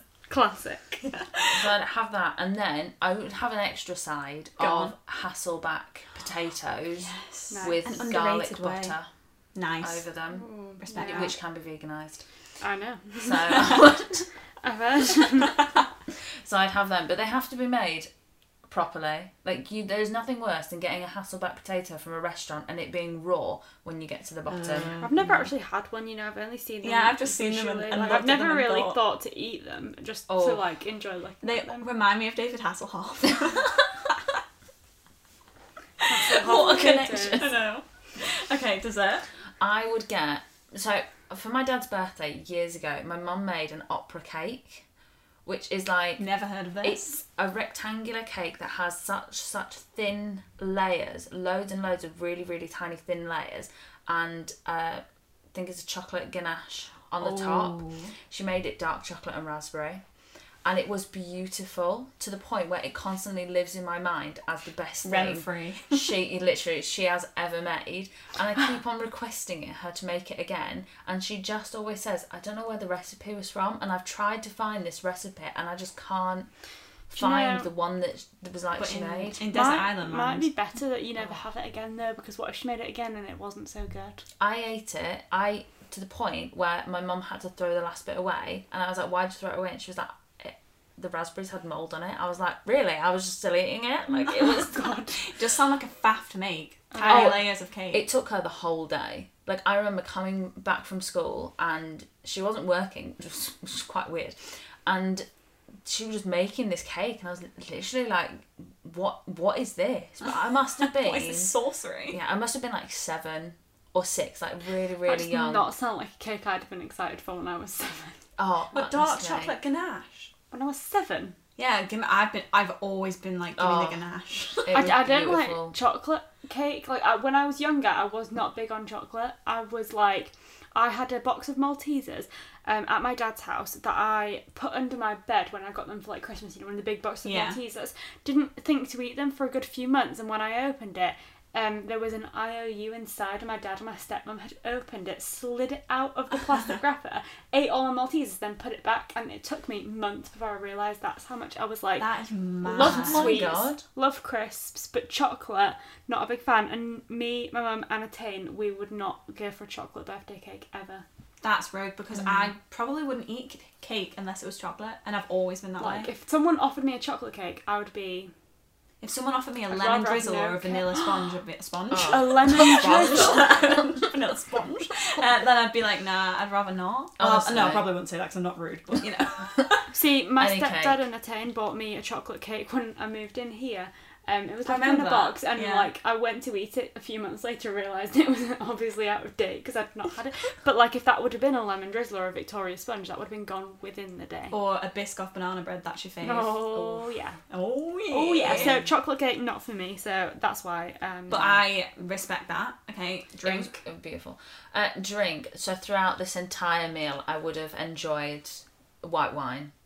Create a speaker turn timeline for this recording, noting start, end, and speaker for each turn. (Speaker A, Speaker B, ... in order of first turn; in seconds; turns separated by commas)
Speaker A: 0.3-1.0, Speaker B: 1.0-1.7, Speaker C: 1.5-9.1, Speaker B: 4.6-4.9, Speaker B: 7.0-8.9, Speaker A: 7.5-7.8, Speaker B: 9.5-10.0, Speaker C: 9.8-12.2, Speaker A: 10.3-11.3, Speaker B: 10.8-11.3, Speaker A: 12.6-13.9, Speaker C: 13.2-14.2, Speaker A: 14.6-15.6, Speaker C: 16.4-18.1, Speaker C: 18.7-25.2, Speaker B: 24.5-25.4, Speaker A: 25.0-31.8, Speaker B: 26.8-29.0, Speaker C: 30.3-30.6, Speaker B: 31.4-34.3, Speaker B: 36.0-39.3, Speaker A: 36.1-37.5, Speaker C: 36.3-37.6, Speaker C: 39.6-44.8, Speaker C: 45.4-46.2, Speaker B: 46.2-47.1, Speaker C: 46.8-60.0, Speaker B: 57.2-58.1, Speaker C: 60.6-76.5, Speaker B: 65.0-66.2, Speaker C: 77.1-79.4, Speaker A: 77.1-77.7, Speaker B: 78.8-80.5, Speaker A: 79.5-84.2, Speaker C: 84.4-94.9, Speaker A: 94.1-95.2, Speaker B: 95.2-98.1, Speaker A: 96.9-97.4, Speaker C: 97.0-105.2, Speaker C: 105.8-111.5, Speaker B: 110.8-112.2, Speaker C: 112.1-115.7, Speaker A: 115.0-118.2, Speaker C: 118.4-119.5, Speaker B: 118.7-120.3, Speaker A: 120.5-121.3, Speaker B: 121.6-124.7, Speaker C: 123.5-124.0, Speaker C: 124.6-125.8, Speaker A: 124.7-152.1, Speaker B: 137.2-137.6, Speaker B: 152.0-153.4, Speaker A: 152.6-161.0, Speaker C: 152.8-153.8, Speaker B: 161.4-166.1, Speaker C: 162.1-162.5, Speaker A: 165.8-168.3, Speaker B: 169.0-179.8, Speaker A: 169.7-171.1, Speaker C: 171.9-174.0, Speaker A: 172.0-173.6, Speaker C: 177.2-177.9, Speaker A: 179.9-194.6, Speaker C: 180.4-181.0, Speaker B: 184.7-185.9, Speaker B: 194.5-198.8, Speaker A: 196.2-197.4, Speaker A: 198.1-201.6, Speaker C: 198.4-198.9, Speaker B: 201.3-203.7, Speaker C: 203.4-209.7